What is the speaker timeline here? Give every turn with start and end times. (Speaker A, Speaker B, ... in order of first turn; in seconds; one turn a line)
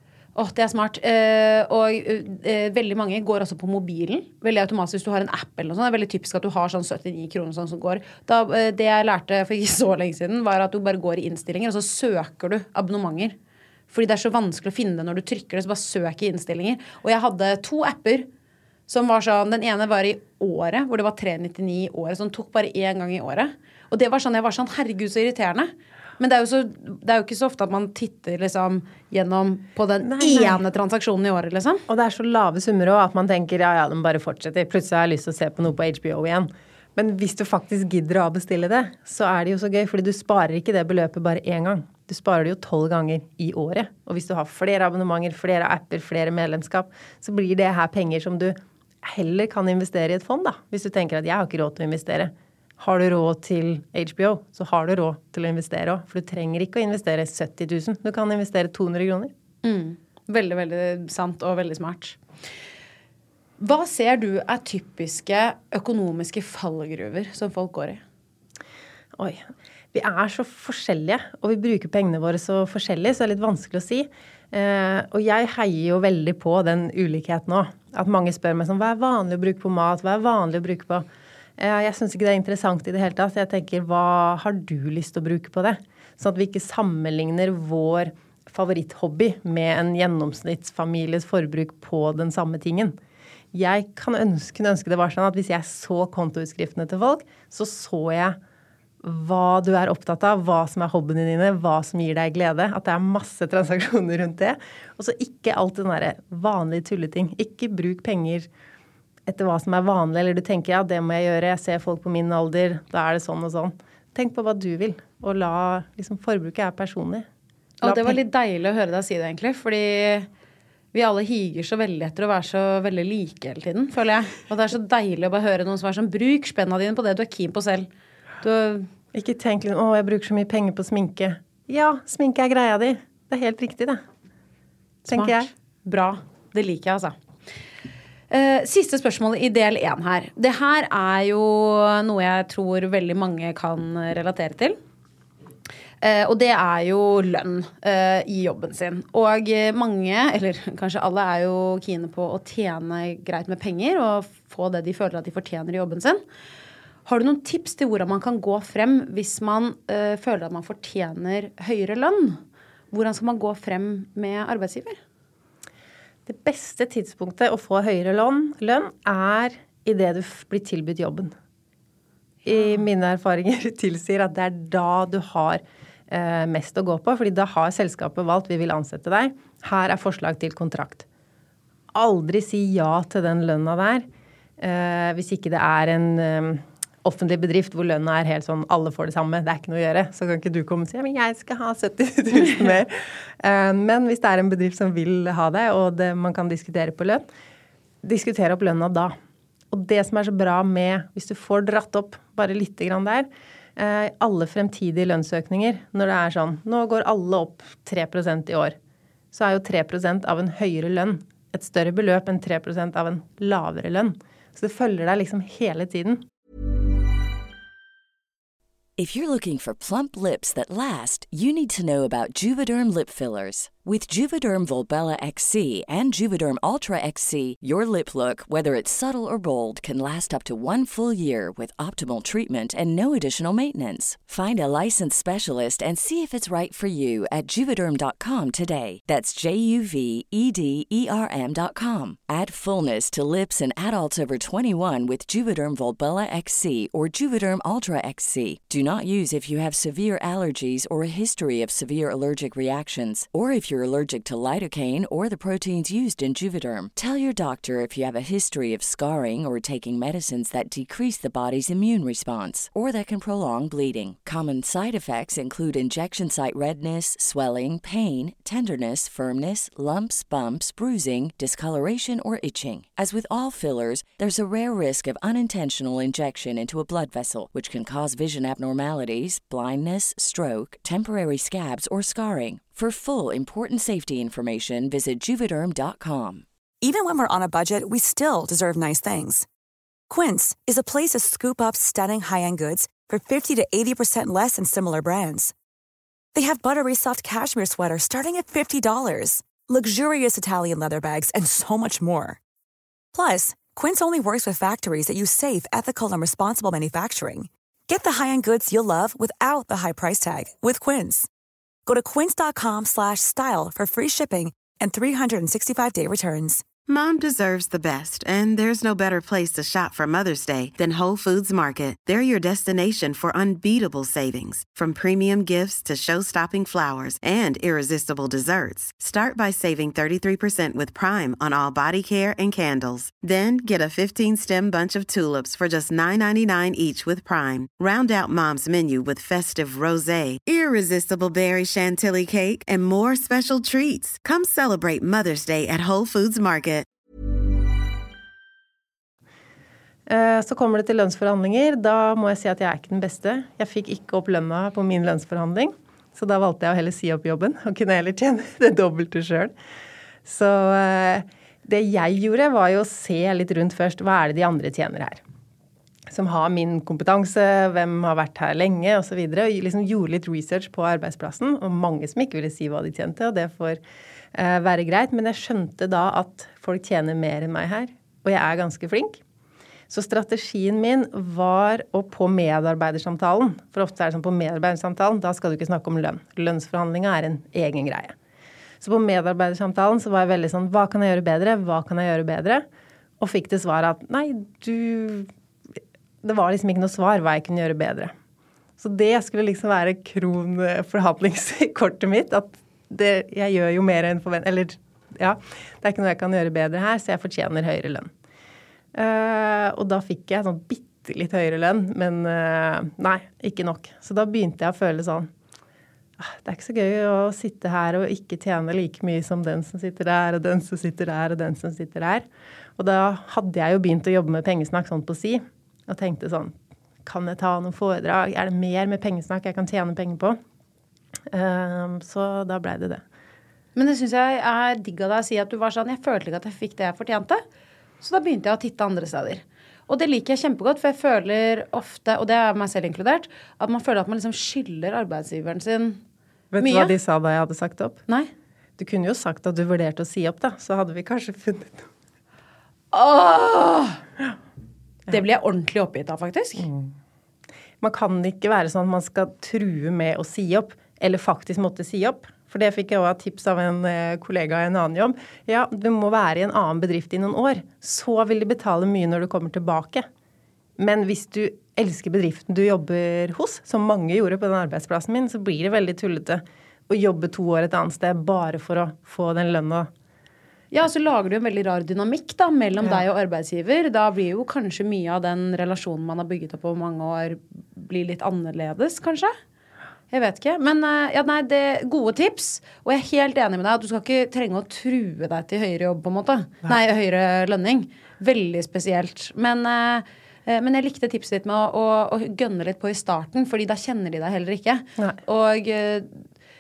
Speaker A: 0.4-13.4
Speaker A: 13.9-18.3
Speaker A: 18.9-31.8
Speaker B: 30.0-30.6
Speaker B: 31.9-59.3
Speaker A: 59.6-62.2
Speaker A: 63.6-68.0
Speaker B: 69.2-81.1
Speaker B: 81.6-93.0
Speaker B: 93.5-98.4
Speaker B: 99.0-108.5
Speaker B: 109.3-117.3
Speaker A: 117.8-120.3
Speaker B: 117.8-118.2
Speaker A: 120.9-127.9
Speaker A: 128.4-128.9
Speaker B: 129.1-134.0
Speaker A: 135.1-137.2
Speaker B: 135.1-135.5
Speaker A: 138.3-144.8
Speaker A: 146.0-156.2
Speaker A: 157.1-162.4
Speaker A: 162.9-165.0
Speaker B: 166.3-171.3
Speaker A: 172.4-172.8
Speaker B: 172.5-181.1
Speaker B: 181.9-184.1
Speaker B: 184.6-197.3
Speaker B: 198.0-199.2
Speaker B: 199.7-208.8
Speaker B: 209.3-216.3
Speaker C: 219.0-286.4
Speaker D: 286.8-289.5
Speaker D: 290.1-295.5
Speaker D: 296.4-302.4
Speaker D: 303.1-311.3
Speaker D: 311.9-316.6
Speaker E: 316.9-346.9
Speaker B: 350.1-359.5
Speaker B: 360.2-365.2
Speaker B: 366.1-373.8
Speaker B: 374.3-379.2
Speaker B: 379.9-388.2
Speaker B: 388.8-392.7
Speaker B: 393.2-395.3
Speaker B: 396.2-398.1
Speaker B: 398.8-408.1
Speaker B: 408.9-415.3
Speaker B: 416.2-430.4
Speaker B: 431.3-433.0
Speaker A: 433.8-437.4
Speaker A: 438.0-446.0
Speaker B: 446.5-448.0
Speaker A: 446.6-446.9
Speaker B: 448.8-451.9
Speaker A: 452.9-454.0
Speaker A: 455.1-456.7
Speaker B: 456.6-456.9
Speaker B: 457.8-470.1
Speaker B: 470.8-479.9
Speaker A: 480.7-489.4
Speaker A: 490.1-506.2